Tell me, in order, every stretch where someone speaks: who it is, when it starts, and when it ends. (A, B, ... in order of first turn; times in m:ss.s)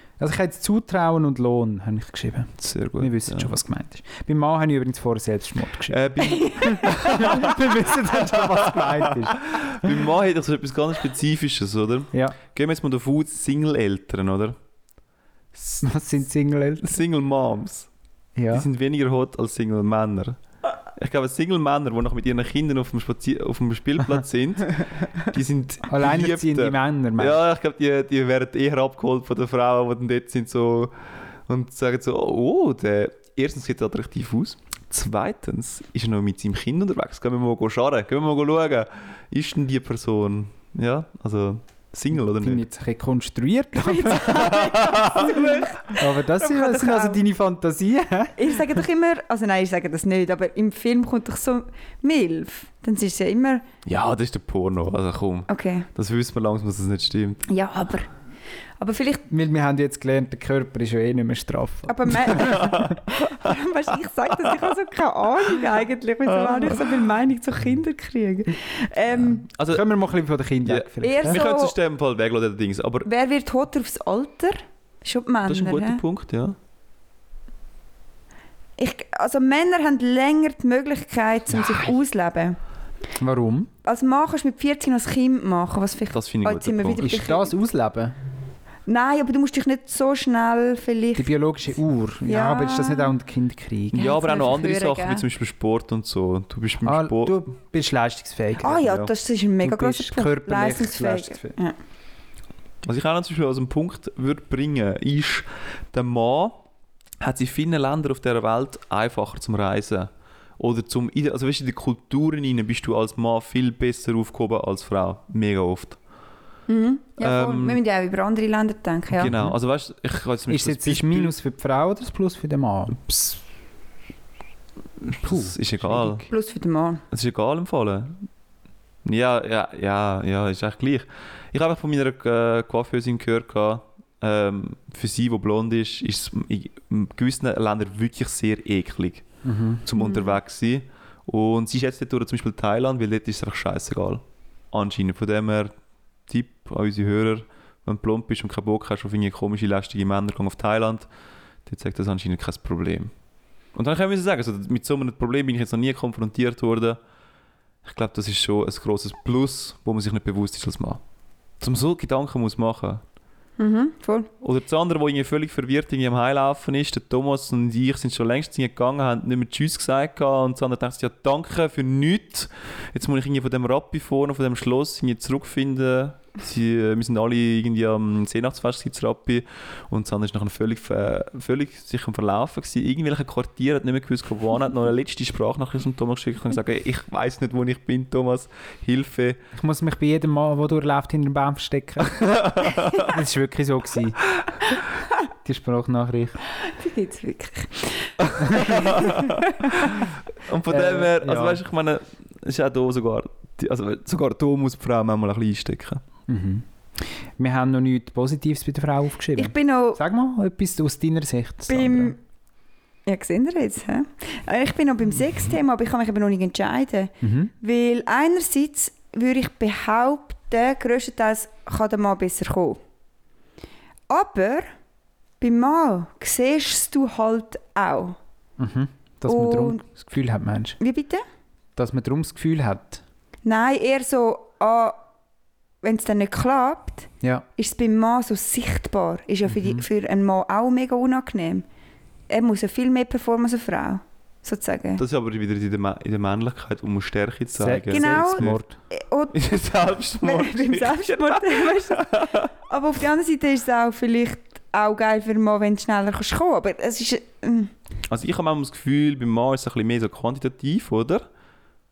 0:00.2-0:10.0 A
0:02.6-0:03.5 B
0:05.9-0:14.6 B
0:06.4-0:07.0 C
0:12.1-0:12.4 A
0:15.5-0:15.9 B
0:15.8-0:17.0 A
0:16.8-0:17.9 B
0:18.4-0:18.7 A
0:18.5-0:20.4 B
0:21.0-0:30.9 B
0:25.9-0:27.4 A
0:31.5-0:42.6 B
0:42.1-0:44.6 A
0:43.8-0:47.2 C
0:44.3-0:45.8 B
0:46.0-0:48.8 A
0:48.4-0:53.6 C
0:53.8-0:57.5 B
0:55.5-0:55.9 C
0:57.5-0:58.1 C
0:58.8-0:59.2 C
0:59.3-1:03.0 A
1:01.9-1:09.5 C
1:02.5-1:03.0 B
1:06.4-1:06.8 B
1:09.5-1:09.9 B
1:09.7-1:11.4 A
1:10.6-1:13.1 B
1:11.0-1:11.8 C
1:13.0-1:16.0 C
1:15.5-1:16.6 B
1:18.8-1:22.6 C
1:23.2-1:23.7 A
1:23.8-1:27.5 C
1:26.1-1:27.1 B
1:27.0-1:28.2 A
1:28.9-1:31.3 C
1:31.2-1:34.1 A
1:32.3-1:33.2 C
1:33.9-1:37.4 B
1:34.0-1:35.2 C
1:36.8-1:38.9 A
1:38.6-1:41.8 C
1:38.8-1:39.1 B
1:39.6-1:41.6 A
1:42.8-1:46.6 B
1:47.2-1:56.0 B
1:56.7-1:59.4 C
1:57.2-1:57.8 B
1:59.1-2:01.4 B
1:59.3-1:59.5 A
2:00.5-2:03.4 A
2:05.1-2:06.2 B
2:05.2-2:06.3 A
2:06.3-2:07.0 C
2:07.1-2:08.2 B
2:09.0-2:19.3 B
2:19.4-2:19.8 A
2:19.8-2:25.7 B
2:20.0-2:20.4 C
2:26.3-2:31.1 B
2:31.7-2:33.1 B
2:33.8-2:37.0 B
2:37.8-2:41.0 B
2:41.6-2:43.0 B
2:43.6-2:44.3 C
2:44.4-3:09.4 B
3:09.5-3:12.2 A
3:12.1-3:13.1 B
3:13.0-3:14.2 A
3:15.4-3:16.4 A
3:16.6-3:19.8 C
3:18.2-3:26.0 B
3:18.4-3:18.9 A
3:20.7-3:21.6 A
3:26.3-3:32.1 A
3:29.4-3:30.0 C
3:31.7-3:32.2 C
3:33.1-3:42.8 C
3:37.2-3:37.5 A
3:44.1-3:44.7 C
3:45.4-3:48.2 C
3:48.6-3:50.8 A
3:49.3-3:49.8 C
3:50.8-3:51.2 C
3:51.8-3:53.0 A
3:53.4-3:55.0 C
3:55.8-4:01.6 C
3:59.5-3:59.8 A
4:02.3-4:05.0 C
4:05.0-4:08.6 B
4:07.5-4:08.8 A
4:07.9-4:09.6 C
4:09.3-4:12.5 B
4:10.2-4:17.7 C
4:18.1-4:21.2 B